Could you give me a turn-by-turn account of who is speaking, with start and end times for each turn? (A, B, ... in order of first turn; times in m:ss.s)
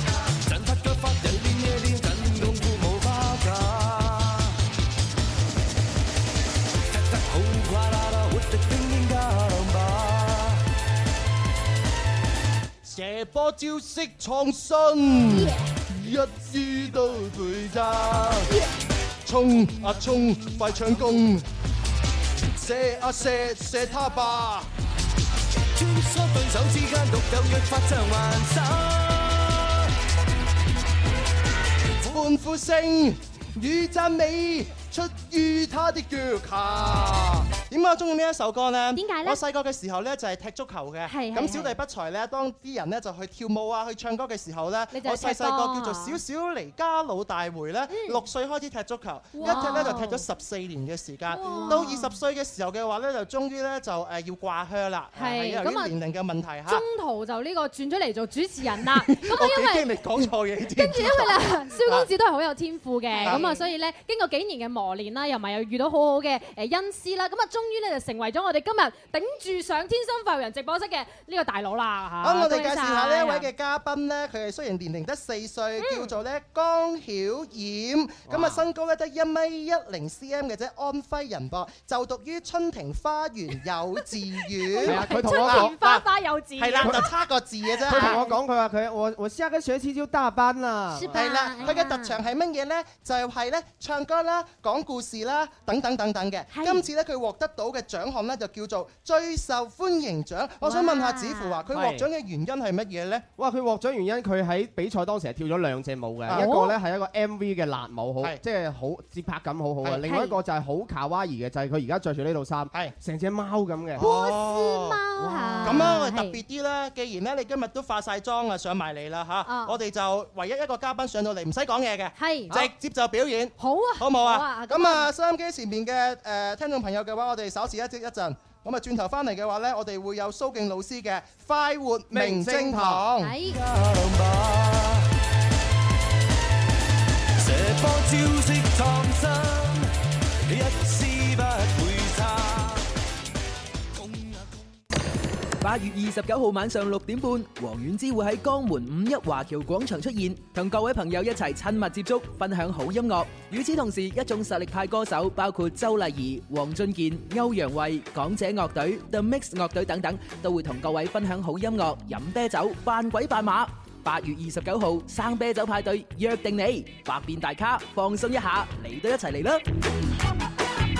0:00.3-0:04.6 A
0:06.9-0:10.6 A
0:12.8-0:18.5 B
0:17.9-0:18.4 A
0:19.2-0:21.5 B
0:22.6-0:24.7 B
0:25.7-0:29.8 A
0:32.1-0:56.8 B
0:38.9-0:39.4 C
0:41.1-0:41.8 C
0:44.9-0:46.2 C
0:47.9-0:48.2 C
0:49.3-0:50.2 C
0:51.3-0:52.1 C
0:55.1-0:55.9 C
0:56.7-0:59.9 C
0:58.8-1:02.1 B
1:00.8-1:13.5 C
1:03.2-1:03.6 B
1:12.2-1:26.0 B
1:15.8-1:16.1 C
1:18.3-1:18.6 D
1:24.6-1:27.1 C
1:24.8-1:25.8 D
1:26.6-1:28.2 B
1:27.8-1:28.4 C
1:27.9-1:31.7 D
1:30.9-1:32.2 C
1:31.1-1:43.3 B
1:36.5-1:36.8 C
1:40.6-1:41.6 C
1:41.7-1:42.0 D
1:43.4-1:54.0 D
1:46.3-1:46.7 C
1:50.0-1:50.4 C
1:54.0-1:55.0 B
1:54.0-1:56.4 C
1:55.2-1:55.9 D
1:55.6-2:13.4 B
1:59.4-1:59.8 C
2:02.2-2:02.6 C
2:03.6-2:05.1 C
2:12.1-2:13.1 D
2:13.2-2:13.6 C
2:13.5-2:15.1 A
2:17.4-2:19.9 A
2:20.4-2:22.8 A
2:23.9-2:24.6 A
2:25.6-2:49.6 E